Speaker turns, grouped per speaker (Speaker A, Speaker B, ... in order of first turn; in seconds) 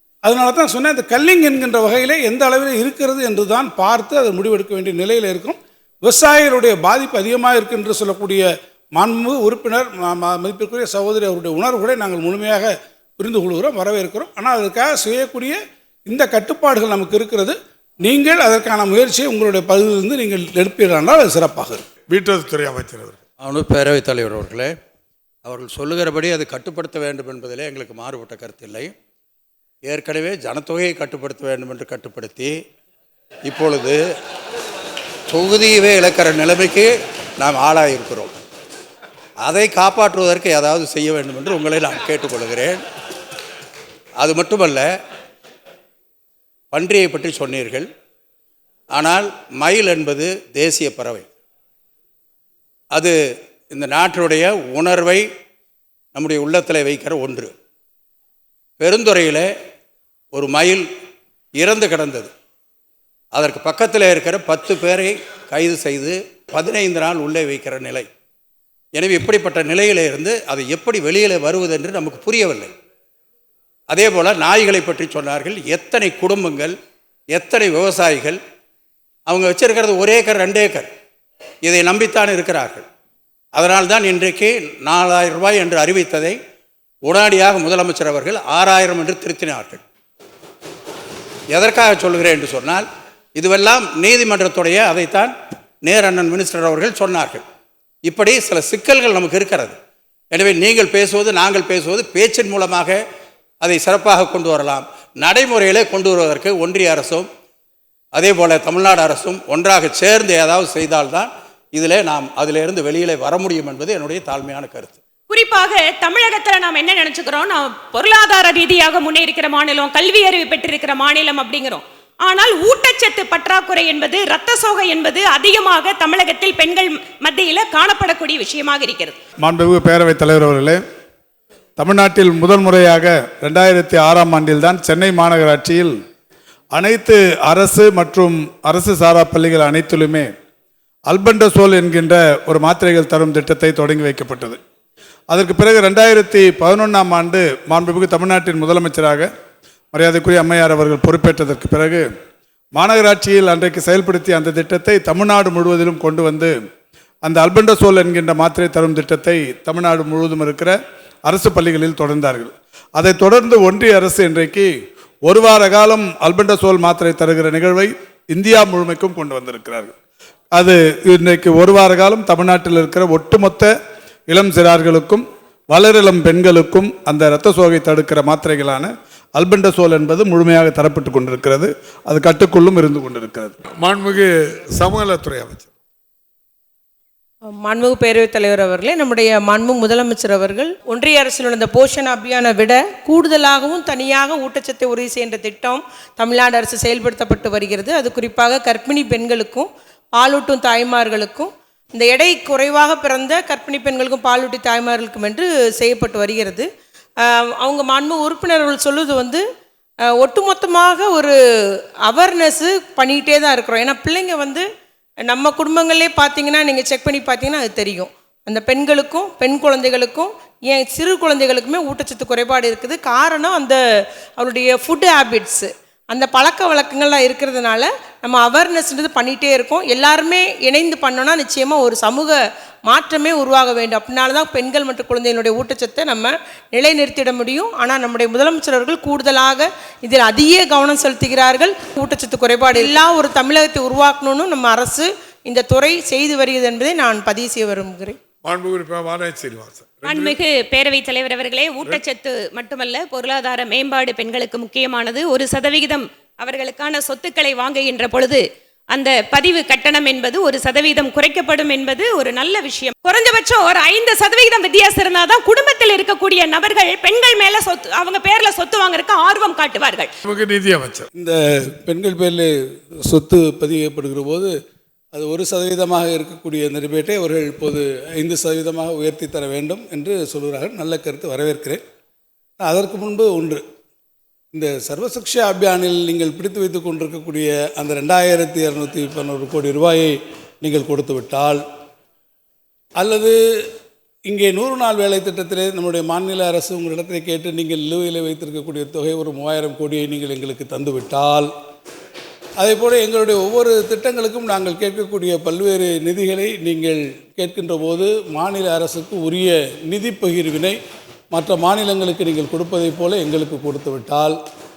Speaker A: 0.2-21.8, 271.1-274.5, 275.1-281.8, 282.6-283.6, 284.5-291.6, 293.0-293.4, 294.3-301.5, 302.6-310.8, 311.3-314.4
Speaker B: 22.1-23.2, 183.7-185.7, 248.4-250.4, 270.3-271.0
Speaker C: 22.1-23.0, 129.4-130.8, 131.8-135.9, 136.7-140.3, 141.1-144.6, 145.3-149.3, 149.9-152.0, 152.7-156.5, 157.2-164.7, 165.3-169.9, 170.5-173.7, 174.3-183.6
Speaker D: 23.4-24.7, 25.4-28.9, 29.8-32.5, 33.5-34.0, 35.3-38.3, 39.4-42.8, 44.2-44.9, 46.7-47.9, 48.9-51.3, 53.7-55.2, 56.1-57.5, 58.8-59.5, 60.3-60.9, 61.6-62.3, 63.3-68.0, 68.9-72.7, 73.9-76.7, 77.3-78.4, 79.3-80.9, 81.6-82.8, 83.5-86.4, 87.0-89.8, 91.5-97.4, 98.0-99.8, 100.3-103.0, 103.6-107.3, 108.1-115.0
Speaker E: 115.3-129.2, 250.0-270.1
Speaker F: 187.4-206.7, 207.2-209.4, 210.1-214.7, 215.2-223.8, 224.4-248.2